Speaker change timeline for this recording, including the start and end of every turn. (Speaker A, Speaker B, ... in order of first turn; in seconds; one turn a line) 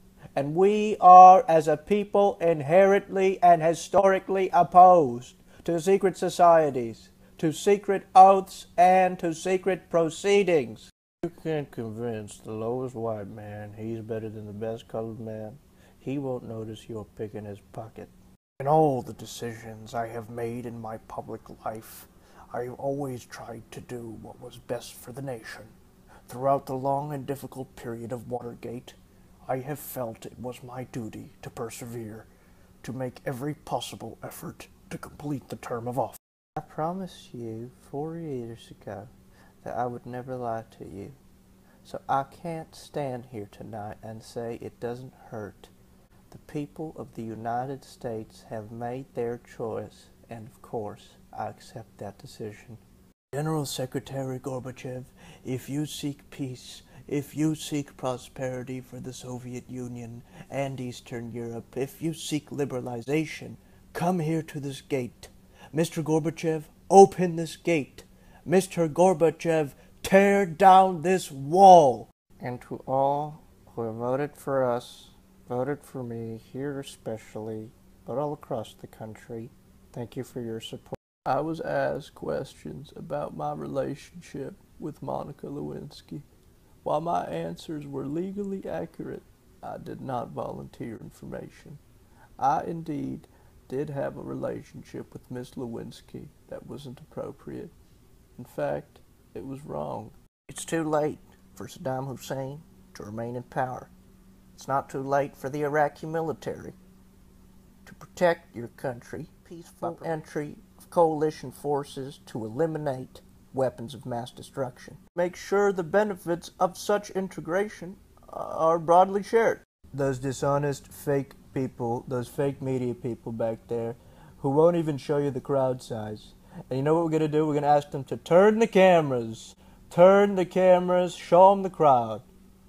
Speaker A: 0.3-25.7
Speaker A: 26.3-32.3
Speaker A: 32.8-39.1
Speaker A: 39.6-41.2
Speaker A: 41.8-45.7
Speaker A: 46.3-52.8
Speaker A: 53.3-86.2
Speaker A: 86.8-91.8
Speaker A: 92.4-97.7
Speaker A: 98.4-103.9
Speaker A: 104.5-106.8
Speaker A: 107.8-132.2